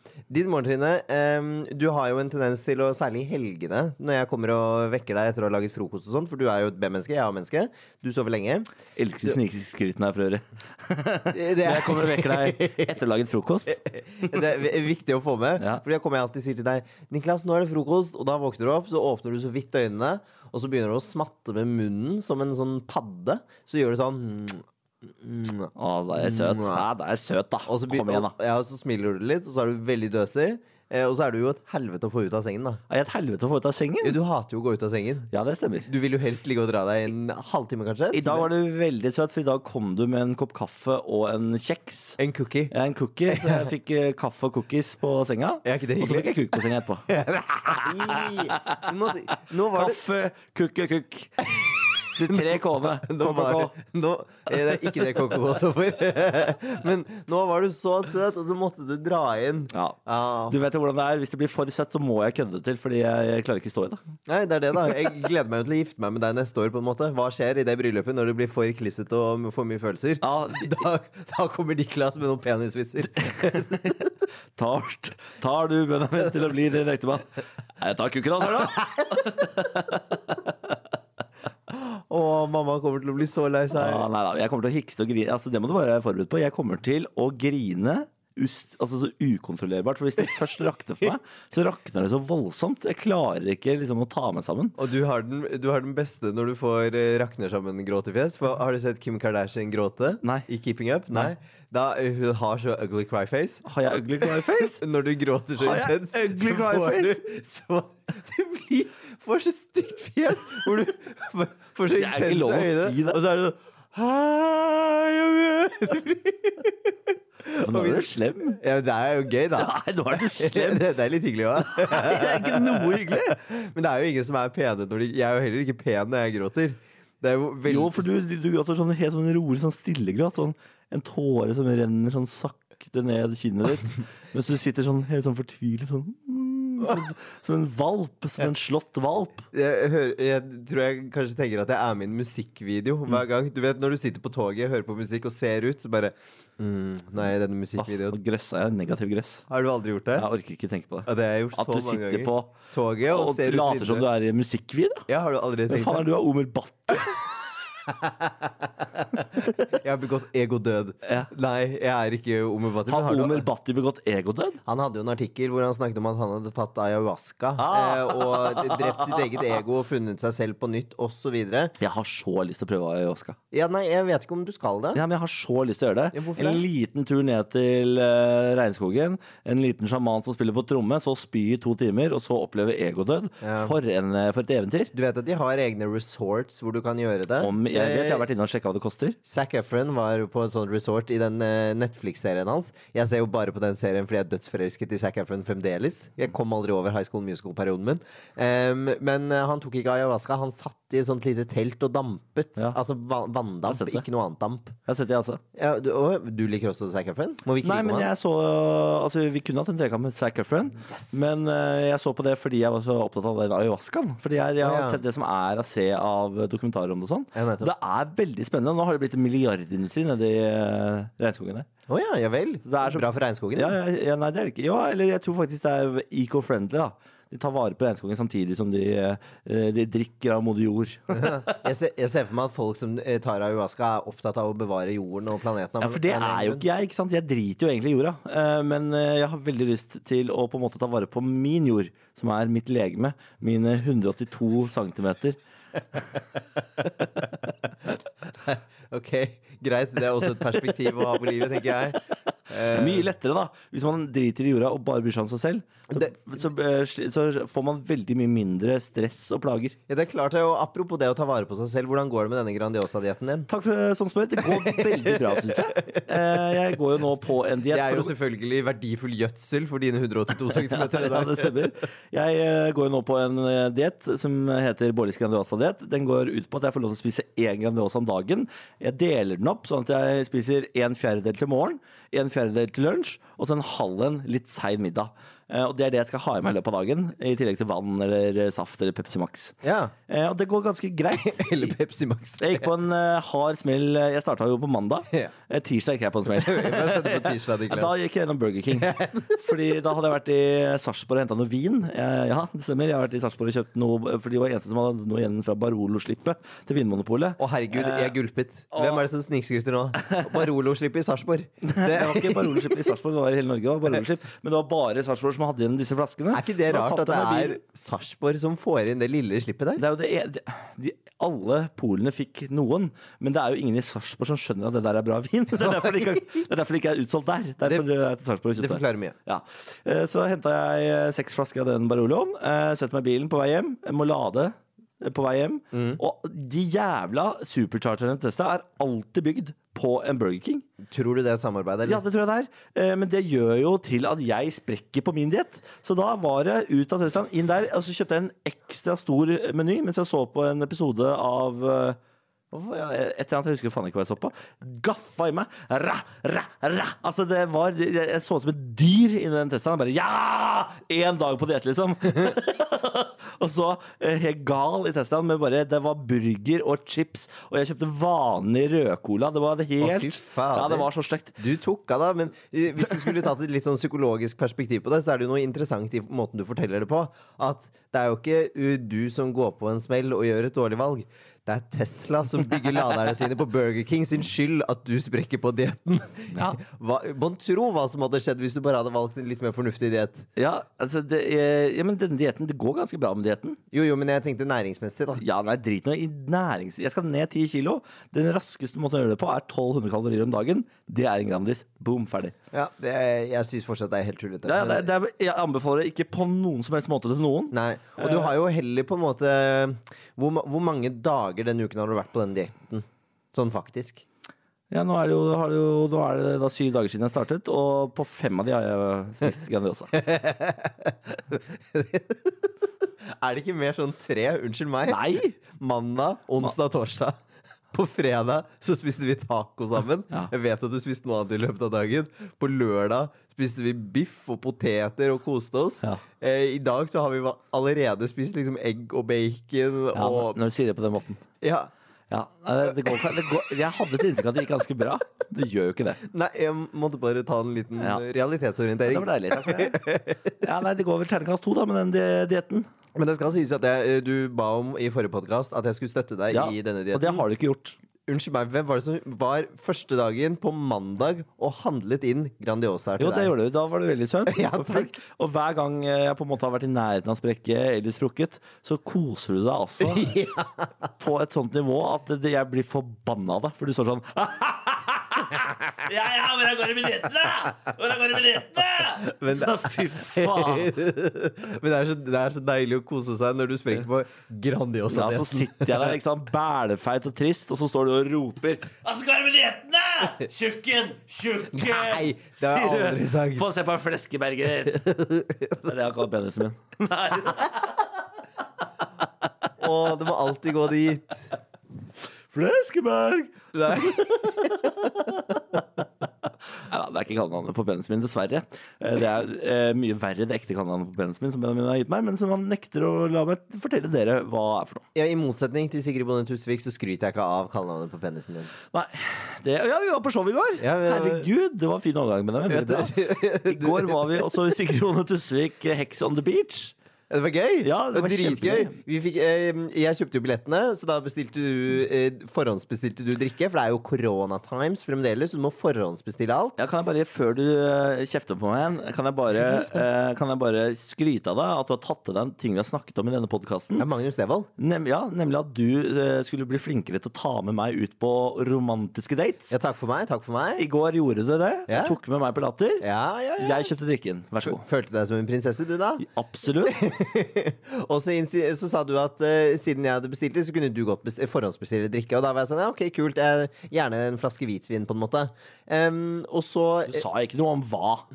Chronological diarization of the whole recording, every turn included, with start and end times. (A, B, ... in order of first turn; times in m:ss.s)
0:00.3-0:08.7 A
0:09.0-0:13.8 B
0:11.3-0:12.9 A
0:13.7-0:26.8 A
0:25.8-0:28.3 B
0:27.7-0:32.8 A
0:32.9-0:34.2 B
0:34.0-0:35.3 A
0:35.3-0:35.9 B
0:35.8-0:38.5 A
0:38.1-0:42.2 B
0:42.2-0:42.7 A
0:42.7-0:47.1 B
0:43.3-0:43.7 A
0:45.6-0:50.0 A
0:47.6-0:48.9 B
0:49.7-0:51.5 B
0:51.6-1:00.6 A
0:52.1-0:53.7 B
1:00.5-1:04.0 B
1:04.3-1:14.0 A
1:10.2-1:10.8 B
1:13.2-1:20.5 B
1:19.0-1:19.3 A
1:21.7-1:24.1 A
1:23.8-1:34.8 B
1:34.8-1:43.6 A
1:43.6-1:44.8 B
1:44.2-2:08.1 A
1:45.6-1:47.2 B
1:51.9-1:53.2 B
1:57.6-1:58.6 B
1:59.5-2:00.9 B
2:01.6-2:03.4 B
2:07.6-2:19.5 B
2:19.5-2:28.2 A
2:27.8-2:29.4 B
2:29.5-2:30.3 A
2:30.2-2:35.0 B
2:31.0-2:34.1 A
2:35.1-2:36.1 A
2:35.7-2:37.3 B
2:37.9-2:43.5 A
2:42.9-2:44.6 B
2:44.6-2:51.8 A
2:47.6-2:49.4 B
2:51.8-2:53.4 B
2:53.5-2:55.0 A
2:54.9-3:04.9 B
2:56.1-2:56.6 A
3:03.4-3:03.7 A
3:04.9-3:08.2 A
3:07.4-3:09.2 B
3:09.2-3:24.7 A
3:23.6-3:24.0 B
3:24.9-3:25.4 B
3:25.5-3:28.1 A
3:27.6-3:41.7 B
3:30.9-3:31.2 A
3:34.6-3:35.0 A
3:37.3-3:37.7 A
3:41.9-3:43.8 A
3:42.6-3:51.6 B
3:51.1-3:56.6 A
3:55.8-4:05.4 B
4:06.8-4:07.3 A
4:08.3-4:13.1 A
4:12.6-4:19.7 B
4:19.9-4:23.5 A
4:23.5-4:28.1 B
4:24.4-4:26.5 A
4:27.7-4:31.6 A
4:30.7-4:49.6 B
4:49.6-4:49.9 A
4:50.1-4:51.8 B
4:51.1-4:52.7 A
4:52.4-5:08.2 B
4:56.3-4:57.9 A
4:58.7-4:59.4 A
5:07.4-5:12.8 A
5:08.7-5:09.0 B
5:11.7-5:17.6 B
5:16.3-5:19.8 A
5:19.8-5:40.6 B
5:28.6-5:29.1 A
5:35.7-5:36.0 A
5:40.9-5:42.0 A
5:41.8-5:52.0 B
5:52.5-6:11.4 B
6:09.8-6:30.2 A
6:26.3-6:26.6 B
6:30.4-6:33.6 B
6:33.7-6:35.2 A
6:35.2-6:42.3 B
6:42.5-6:44.9 A
6:44.4-6:48.3 B
6:47.5-6:54.0 A
6:54.7-7:00.0 B
6:59.9-7:02.5 A
7:03.0-7:07.2 A
7:04.9-7:05.4 B
7:07.7-7:20.4 A
7:19.9-7:21.2 B
7:21.4-7:21.7 A
7:22.1-7:26.0 B
7:26.1-7:30.4 A
7:28.8-7:29.8 B
7:30.4-7:32.6 B
7:32.9-7:37.2 A
7:36.3-7:37.8 B
7:38.1-7:43.3 A
7:43.0-7:50.1 B
7:44.3-7:44.9 A
7:49.8-7:50.7 A
7:51.0-8:00.7 B
7:59.0-8:06.0 A
8:04.9-8:15.0 B
8:11.5-8:13.4 A
8:14.7-8:15.6 A
8:15.6-8:17.8 B
8:19.6-8:21.3 A
8:22.3-8:25.6 B
8:23.5-8:24.5 A
8:26.6-8:34.8 B
8:34.9-8:38.5 A
8:38.7-8:46.7 B
8:40.6-8:41.3 A
8:42.5-8:44.5 A
8:47.1-8:56.6 A
8:47.6-8:48.7 B
8:56.6-9:03.9 B
8:59.4-8:59.8 A
9:03.8-9:04.5 A
9:04.6-9:09.5 B
9:09.5-9:10.6 A
9:10.6-9:12.8 B
9:11.7-9:12.0 A
9:12.8-9:13.7 A
9:13.4-9:14.6 B
9:14.4-9:16.0 A
9:16.0-9:16.8 B
9:16.6-9:27.0 A
9:26.9-9:28.0 B